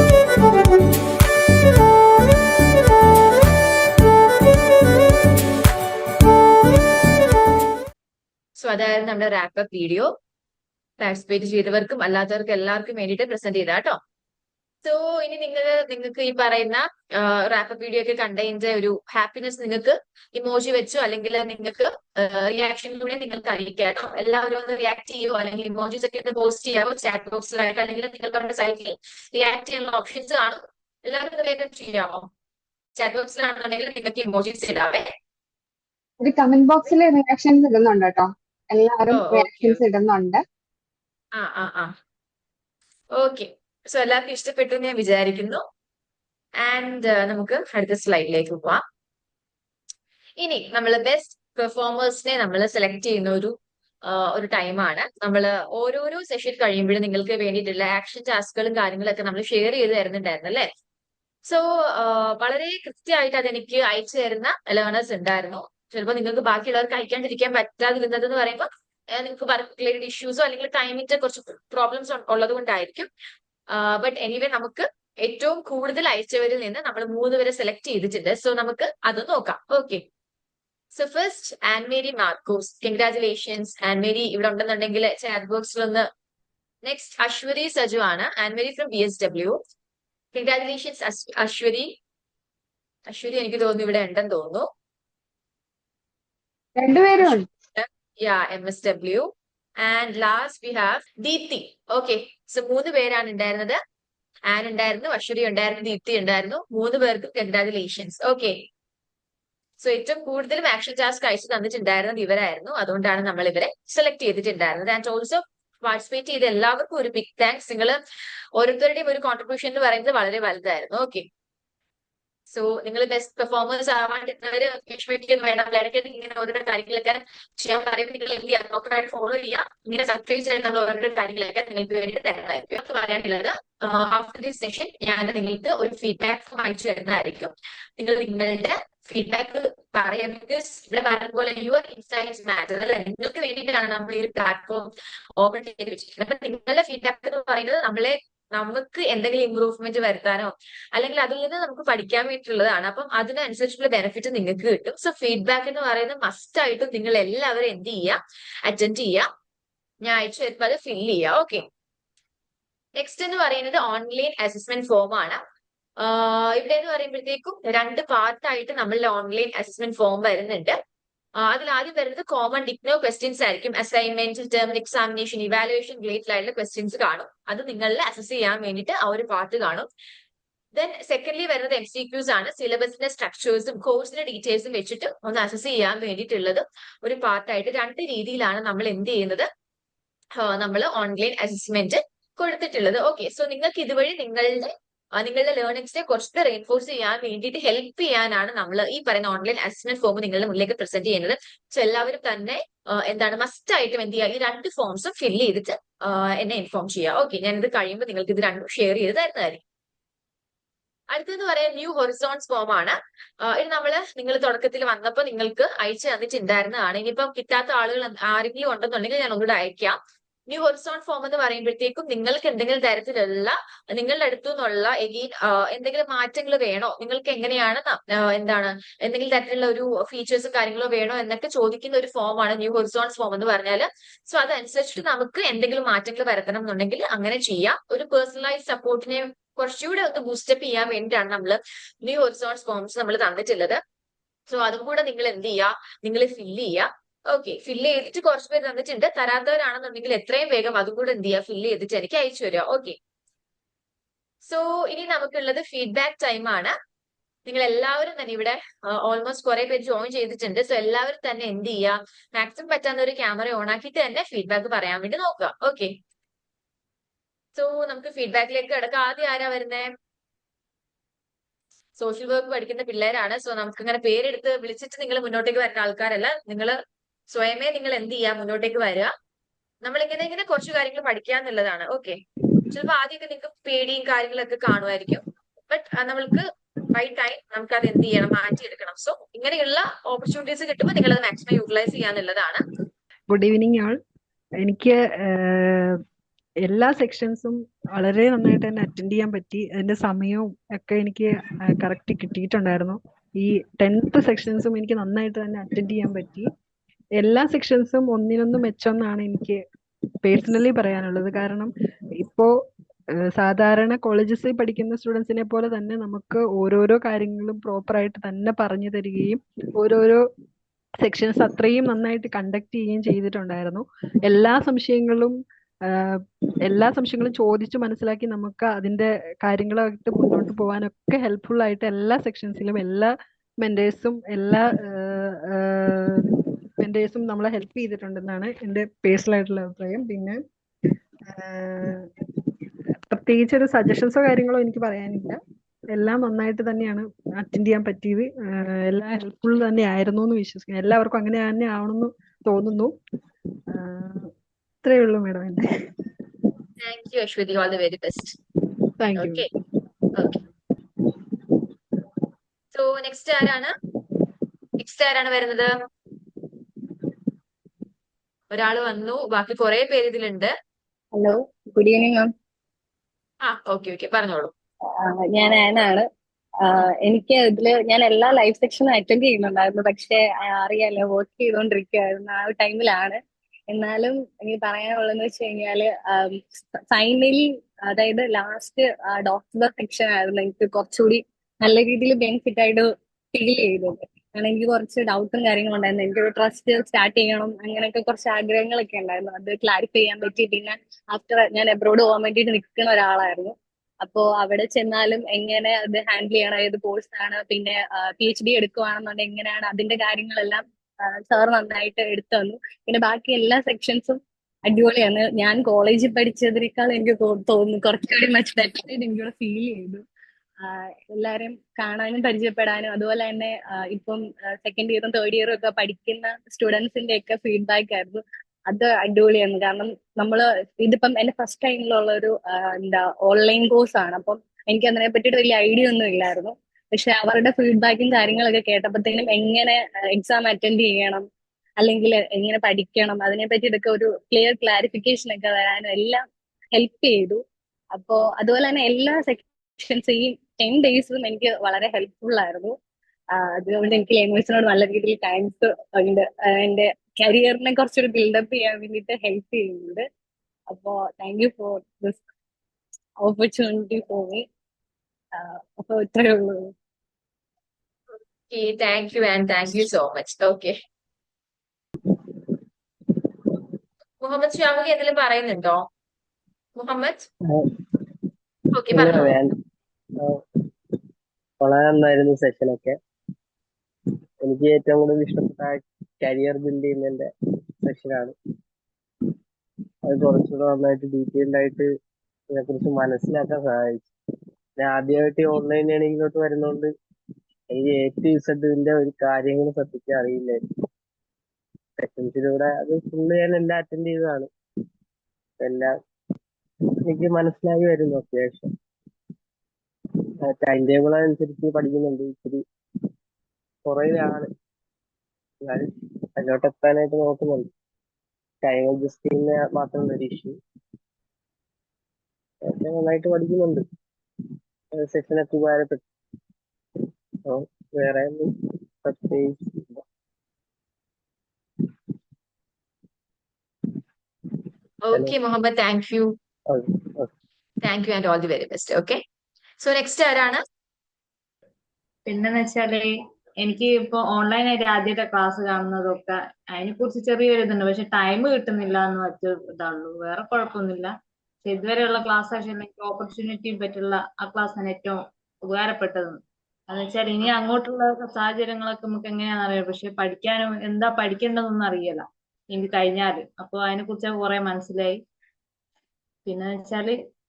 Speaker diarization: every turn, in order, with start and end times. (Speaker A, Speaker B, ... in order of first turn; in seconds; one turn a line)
Speaker A: 8.6-10.1
Speaker A: 11.0-14.0
Speaker A: 14.8-32.3
Speaker A: 33.0-35.1
Speaker B: 36.2-40.4
Speaker A: 39.1-39.8
Speaker A: 41.4-41.9
Speaker A: 43.1-45.6
Speaker A: 46.6-48.8
Speaker A: 50.4-60.7
Speaker A: 61.5-73.1
Speaker A: 73.7-80.0
Speaker A: 80.9-86.1
Speaker A: 86.8-89.6
Speaker A: 90.3-91.9
Speaker A: 93.1-94.7
Speaker B: 96.8-97.4
Speaker A: 97.2-103.8
Speaker A: 104.5-108.6
Speaker A: 109.8-118.0
Speaker A: 118.6-121.2
Speaker A: 122.5-159.3
Speaker A: 160.0-161.7
Speaker A: 163.0-165.4
Speaker A: 166.0-170.8
Speaker A: 171.4-179.9
Speaker A: 180.7-189.5
Speaker A: 190.3-209.6
Speaker A: 211.1-220.0
Speaker A: 220.5-243.8
Speaker A: 244.5-253.0
Speaker A: 254.4-256.7
Speaker A: 257.4-265.9
Speaker A: 267.5-269.9
Speaker A: 272.0-276.8
Speaker A: 277.3-279.1
Speaker A: 279.8-292.6
Speaker C: 293.3-294.0
Speaker C: 294.6-296.0
Speaker C: 296.6-306.5
Speaker C: 307.2-309.6
Speaker C: 310.2-312.5
Speaker C: 313.4-320.2
Speaker C: 321.0-340.4
Speaker C: 341.3-342.1
Speaker C: 343.1-345.4
Speaker C: 345.9-352.9
Speaker C: 353.7-354.3
Speaker C: 354.8-355.9
Speaker A: 356.8-358.4
Speaker C: 359.0-359.4
Speaker A: 359.1-359.5
Speaker A: 360.1-360.4
Speaker A: 362.7-363.7
Speaker A: 364.8-365.7
Speaker A: 368.5-370.5
Speaker D: 371.1-372.3
Speaker A: 373.4-374.5
Speaker D: 375.0-376.0
Speaker D: 376.6-383.2
Speaker D: 383.7-420.0
Speaker D: 420.6-441.2
Speaker D: 441.8-446.2
Speaker D: 446.7-447.4
Speaker D: 447.9-452.7
Speaker D: 453.3-460.0
Speaker D: 460.7-462.2
Speaker D: 463.2-464.4
Speaker D: 465.3-466.7
Speaker A: 468.5-470.8
Speaker E: 472.0-472.4
Speaker A: 474.2-475.8
Speaker A: 476.8-477.3
Speaker E: 477.5-478.2
Speaker A: 478.7-479.4
Speaker E: 478.9-479.6
Speaker E: 481.6-482.9
Speaker E: 484.4-487.2
Speaker E: 487.8-488.3
Speaker E: 490.0-491.9
Speaker E: 492.5-494.1
Speaker E: 494.8-496.9
Speaker E: 497.7-500.6
Speaker E: 502.0-504.5
Speaker E: 505.6-505.9
Speaker E: 507.0-508.7
Speaker E: 510.4-512.6
Speaker E: 513.9-514.5
Speaker E: 515.6-517.7
Speaker E: 518.6-520.6
Speaker E: 522.6-523.8
Speaker E: 524.9-526.0
Speaker E: 527.0-530.0
Speaker A: 535.1-536.3
Speaker E: 536.7-537.3
Speaker A: 537.8-539.2
Speaker A: 539.8-540.6
Speaker F: 542.3-551.1
Speaker F: 551.6-565.2
Speaker F: 566.5-567.2